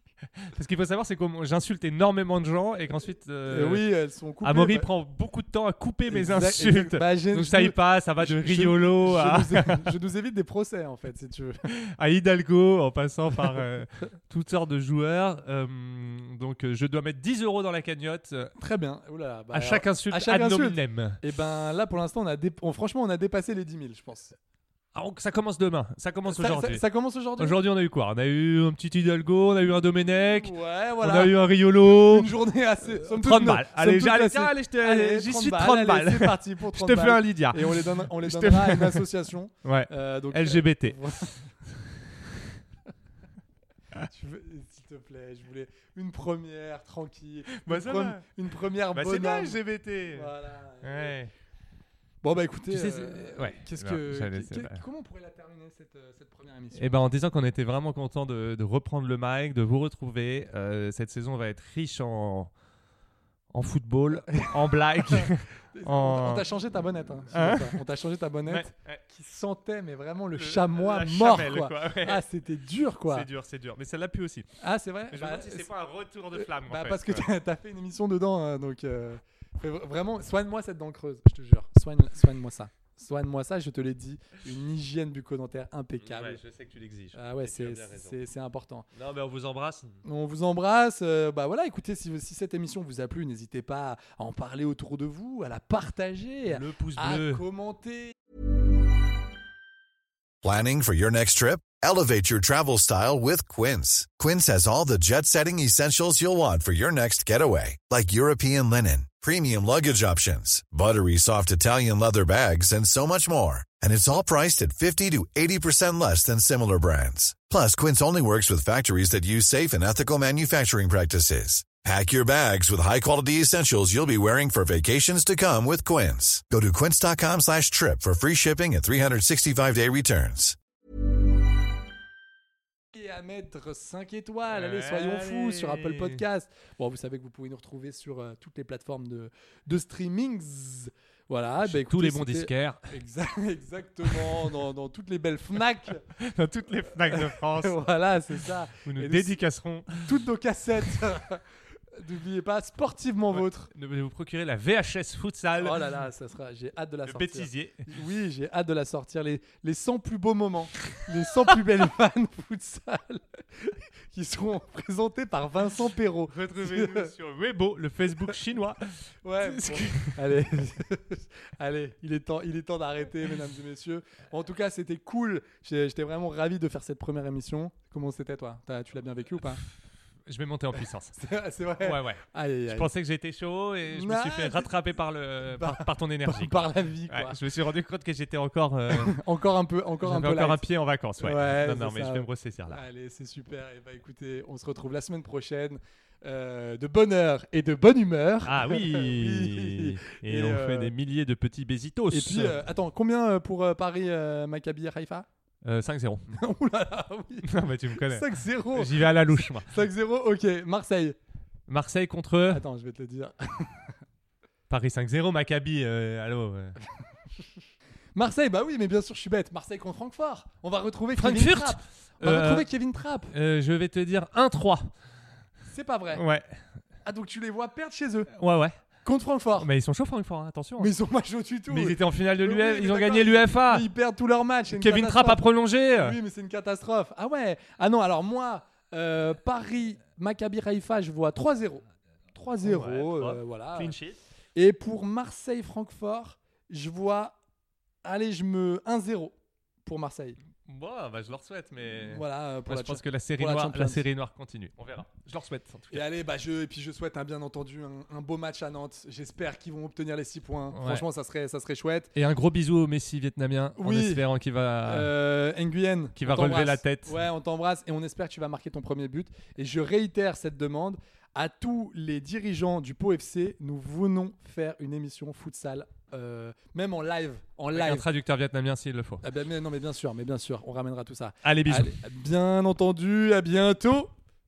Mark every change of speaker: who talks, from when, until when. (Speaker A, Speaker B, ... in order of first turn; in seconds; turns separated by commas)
Speaker A: 0.4-3.9, Speaker B: 3.5-4.9, Speaker A: 4.4-9.9, Speaker B: 6.1-11.6, Speaker A: 11.7-18.5, Speaker B: 18.6-24.3, Speaker A: 19.5-21.2, Speaker A: 24.9-26.8, Speaker B: 26.3-27.6, Speaker A: 27.4-32.3, Speaker B: 30.1-41.5, Speaker A: 32.8-39.1, Speaker A: 39.6-41.0, Speaker B: 44.1-49.6, Speaker A: 47.5-48.3, Speaker A: 48.9-50.3, Speaker B: 50.1-51.1, Speaker A: 50.8-51.3, Speaker B: 52.2-56.9, Speaker A: 52.7-54.8, Speaker A: 56.8-62.5, Speaker A: 63.5-66.5, Speaker B: 64.2-73.3, Speaker A: 67.3-67.8, Speaker A: 68.5-69.0, Speaker A: 70.3-72.2, Speaker A: 73.1-74.5, Speaker B: 74.6-75.7, Speaker A: 75.1-77.2, Speaker B: 76.3-86.4, Speaker A: 86.0-88.2, Speaker B: 87.1-88.9, Speaker A: 88.9-90.0, Speaker B: 90.0-98.1, Speaker A: 96.5-97.4, Speaker C: 100.4-130.6, Speaker B: 132.9-146.0, Speaker A: 134.5-136.2, Speaker A: 141.6-142.9, Speaker A: 144.1-144.5, Speaker A: 146.2-147.9, Speaker B: 147.1-149.4, Speaker A: 148.8-150.1, Speaker B: 150.0-151.4, Speaker B: 151.9-153.7, Speaker A: 153.3-155.9, Speaker B: 155.6-167.1, Speaker A: 157.1-157.9, Speaker A: 166.3-170.2, Speaker B: 169.2-179.6, Speaker A: 180.2-181.2, Speaker B: 180.8-182.9, Speaker A: 181.8-189.2, Speaker B: 183.9-184.7, Speaker B: 185.6-187.4, Speaker B: 188.9-190.6, Speaker A: 190.0-192.8, Speaker B: 191.2-200.9, Speaker A: 198.4-202.6, Speaker B: 202.1-205.3, Speaker A: 205.6-206.4, Speaker B: 206.3-211.2, Speaker A: 207.4-209.7, Speaker A: 211.7-212.6, Speaker B: 212.5-213.9, Speaker A: 214.7-216.8, Speaker B: 218.1-223.3, Speaker A: 221.2-222.7, Speaker A: 223.3-224.9, Speaker B: 225.7-226.2, Speaker A: 226.1-226.6, Speaker B: 227.0-228.3, Speaker A: 228.3-228.8, Speaker B: 229.0-229.7, Speaker A: 229.6-230.9, Speaker B: 230.8-235.4, Speaker A: 231.7-233.9, Speaker A: 234.7-236.2, Speaker B: 235.9-241.8, Speaker B: 242.3-243.9, Speaker A: 242.6-244.2, Speaker B: 244.6-247.3, Speaker B: 248.0-249.3, Speaker B: 249.8-250.4, Speaker A: 250.6-256.0, Speaker B: 251.8-254.0, Speaker B: 255.9-262.1, Speaker A: 260.7-261.0, Speaker A: 262.1-265.1, Speaker B: 263.8-264.2, Speaker B: 264.8-278.1, Speaker A: 266.1-267.1, Speaker A: 277.7-279.2, Speaker B: 279.2-284.1, Speaker A: 281.4-281.9